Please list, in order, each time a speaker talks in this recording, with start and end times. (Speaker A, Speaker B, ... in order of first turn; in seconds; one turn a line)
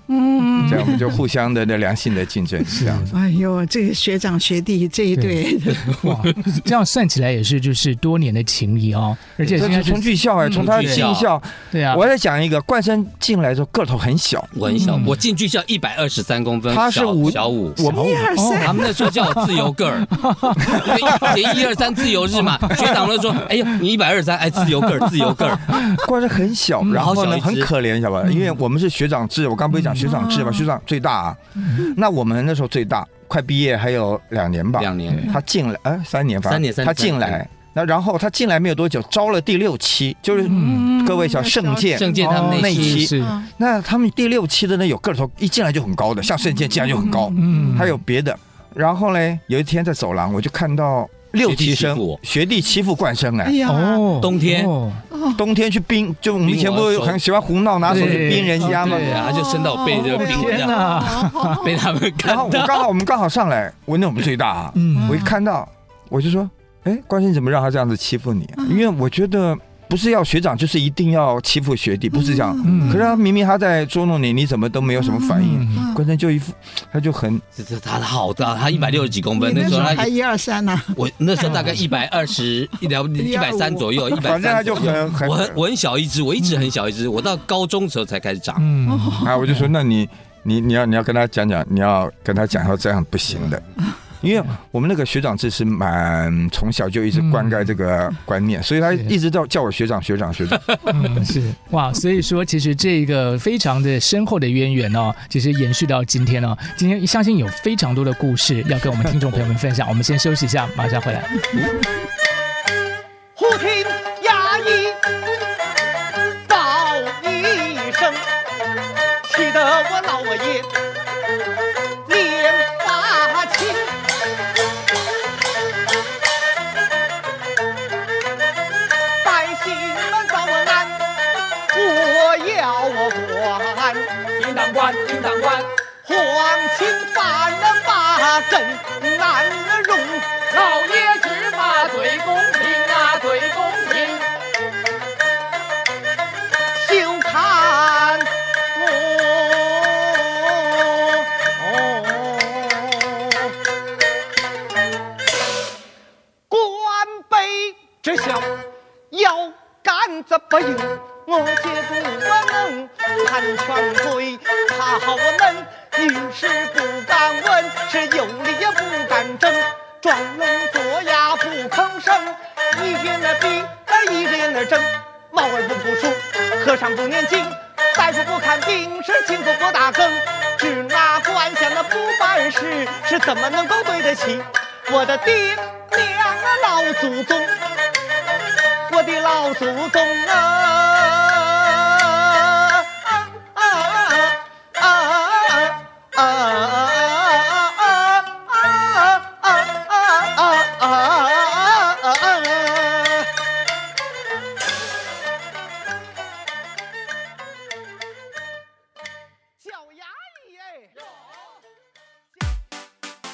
Speaker A: 0.1-1.1
Speaker B: 0.6-0.9
Speaker C: 0.6-3.1
Speaker B: 2.7-3.1
Speaker A: 3.1-6.1
Speaker B: 5.9-11.1
Speaker D: 9.4-9.8
Speaker C: 9.5-14.5
Speaker D: 10.5-11.3
Speaker B: 11.7-12.1
Speaker D: 14.5-17.9
Speaker B: 14.8-15.1
Speaker C: 16.7-18.3
Speaker A: 17.9-19.0
Speaker B: 17.9-21.4
Speaker D: 18.6-25.8
Speaker B: 22.4-22.9
Speaker B: 25.0-26.0
Speaker C: 25.9-53.6
Speaker B: 26.8-27.1
Speaker D: 26.9-27.7
Speaker B: 28.2-28.6
Speaker B: 29.7-30.1
Speaker A: 30.0-30.7
Speaker D: 34.8-35.2
Speaker D: 36.5-37.4
Speaker A: 40.4-42.4
Speaker B: 40.5-40.9
Speaker D: 42.0-43.1
Speaker B: 42.2-43.4
Speaker A: 43.1-43.5
Speaker A: 46.9-47.8
Speaker B: 47.3-48.0
Speaker D: 51.4-52.2
Speaker A: 53.4-54.2
Speaker B: 53.7-55.0
Speaker D: 54.2-54.7
Speaker A: 55.1-55.4
Speaker C: 55.3-59.1
Speaker D: 56.4-62.9
Speaker B: 57.9-59.3
Speaker A: 59.1-61.7
Speaker B: 60.1-61.6
Speaker C: 62.2-77.4
Speaker B: 64.8-65.2
Speaker A: 65.0-65.3
Speaker A: 68.6-68.9
Speaker A: 72.2-73.1
Speaker B: 72.6-73.0
Speaker A: 75.0-76.0
Speaker B: 75.4-75.8
Speaker D: 77.5-80.1
Speaker B: 78.8-79.1
Speaker A: 79.4-81.8
Speaker D: 81.0-88.7
Speaker A: 83.2-84.2
Speaker C: 84.2-85.6
Speaker B: 88.6-89.6
Speaker A: 88.9-89.4
Speaker C: 89.2-93.6
Speaker C: 94.2-100.7
Speaker B: 97.2-97.6
Speaker B: 100.9-111.5
Speaker E: 113.3-115.0
Speaker E: 116.5-118.2
Speaker E: 119.2-120.7
Speaker E: 122.1-123.8
Speaker E: 129.2-131.0
Speaker E: 131.7-144.2
Speaker E: 146.7-153.5
Speaker E: 156.5-158.5
Speaker E: 159.1-187.5
Speaker E: 188.9-203.3
Speaker E: 209.6-210.9